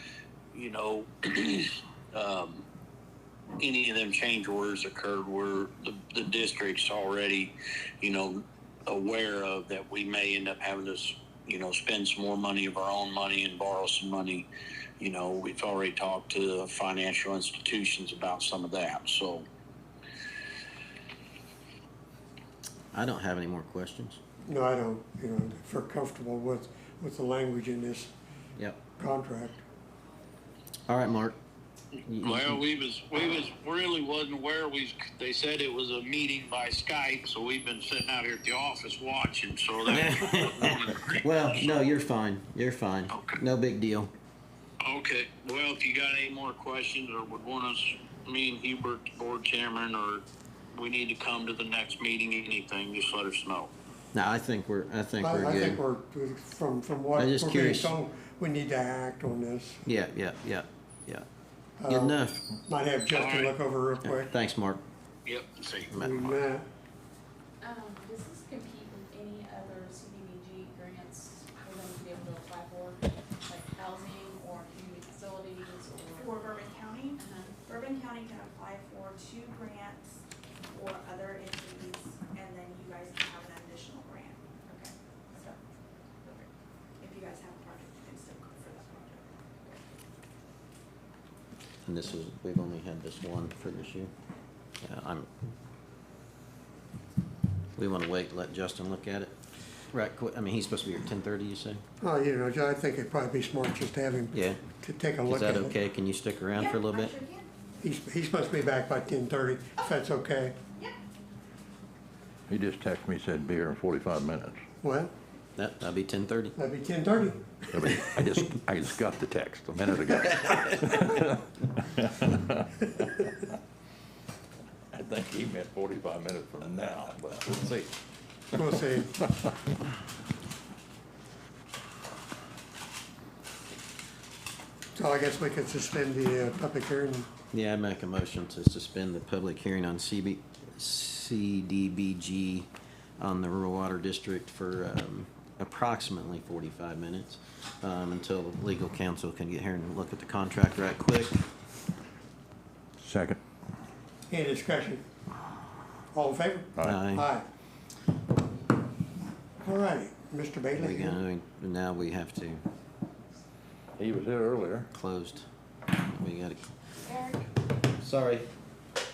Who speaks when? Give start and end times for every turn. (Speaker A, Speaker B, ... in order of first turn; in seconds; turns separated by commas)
Speaker A: 0.5-2.6, Speaker A: 3.6-14.5, Speaker A: 15.0-19.4, Speaker B: 22.9-24.2, Speaker C: 24.5-28.1, Speaker B: 28.6-28.9, Speaker C: 29.0-29.6, Speaker B: 30.9-31.4, Speaker B: 32.1-32.6, Speaker A: 32.2-41.8, Speaker B: 39.8-44.1, Speaker A: 43.1-43.4, Speaker A: 44.8-53.7, Speaker B: 54.1-55.8, Speaker C: 55.2-59.8, Speaker B: 57.1-58.0, Speaker B: 59.8-61.3, Speaker C: 61.8-64.3, Speaker B: 61.9-62.5, Speaker A: 63.1-63.5, Speaker B: 64.0-64.8, Speaker A: 65.2-65.9, Speaker B: 65.9-66.3, Speaker C: 66.0-66.7, Speaker D: 67.6-76.6, Speaker E: 76.1-85.6, Speaker D: 77.2-77.5, Speaker E: 86.2-86.5, Speaker E: 87.0-89.8, Speaker B: 91.8-94.1, Speaker B: 94.8-95.3, Speaker B: 97.8-99.3, Speaker B: 99.9-101.8, Speaker C: 102.0-105.8, Speaker B: 104.3-107.2, Speaker E: 106.5-107.5, Speaker C: 107.8-110.6, Speaker F: 112.5-114.6, Speaker C: 114.8-115.1, Speaker B: 115.5-116.6, Speaker C: 116.6-117.5, Speaker F: 117.7-121.4, Speaker B: 117.9-118.5, Speaker F: 122.0-123.3, Speaker F: 124.9-127.9, Speaker F: 128.5-129.4, Speaker C: 128.5-129.1, Speaker C: 134.9-137.3, Speaker B: 137.5-142.7, Speaker B: 143.2-151.5, Speaker F: 153.0-153.4, Speaker C: 154.3-155.0, Speaker C: 156.1-157.4, Speaker F: 156.8-157.0, Speaker B: 156.9-157.3, Speaker C: 159.6-161.2, Speaker B: 160.7-162.6, Speaker F: 164.0-164.9, Speaker B: 164.9-167.2, Speaker B: 167.8-168.5